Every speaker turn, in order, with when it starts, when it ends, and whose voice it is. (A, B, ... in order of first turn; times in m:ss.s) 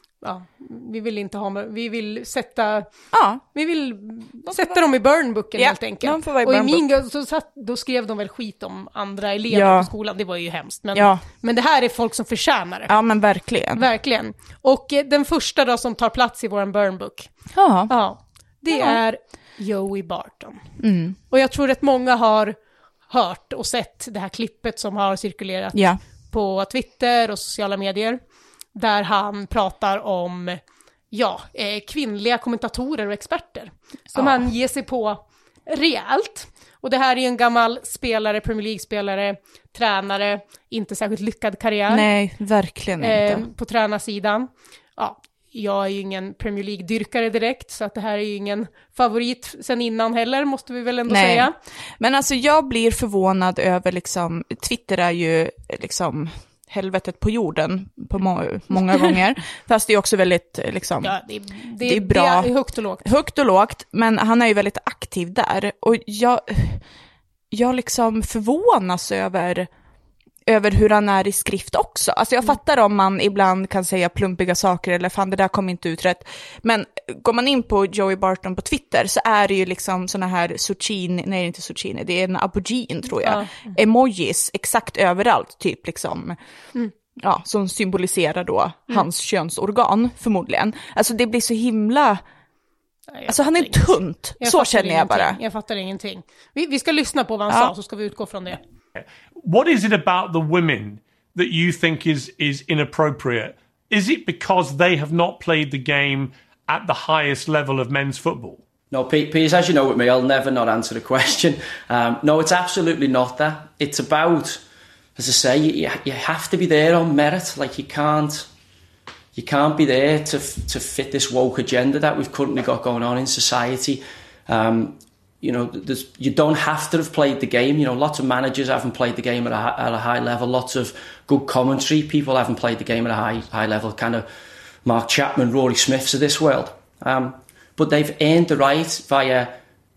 0:00.2-0:02.9 A
0:03.1-0:03.4 B
0:03.5-0:12.9 A
0:04.5-0:04.8 B
0:05.6-0:06.8 B
0:09.5-0:09.9 B
0:10.9-0:11.2 B
0:12.9-0:13.8 B
0:13.8-0:17.3 A
0:17.5-0:17.9 B
0:17.9-0:20.6 A
0:18.7-0:19.0 B
0:20.8-0:21.2 B
0:21.3-0:22.6 A
0:23.1-0:28.2 A
0:25.7-0:26.0 B
0:28.7-0:30.6 A
0:31.1-0:42.1 A
0:34.1-0:34.4 B
0:41.9-0:43.4 B
0:43.0-0:51.5 A
0:51.1-1:01.1 B
1:01.0-1:03.0 A
1:01.8-1:02.5 B
1:03.0-1:06.8 B
1:07.5-1:09.7 B
1:10.4-1:26.4 B
1:23.2-1:23.7 A
1:27.2-1:32.2 B
1:33.1-1:38.6 A
1:33.3-1:35.4 B
1:39.0-1:48.6 C
1:48.9-1:54.6 D
1:55.2-1:58.4 D
1:59.3-2:14.2 D
2:14.8-2:19.5 D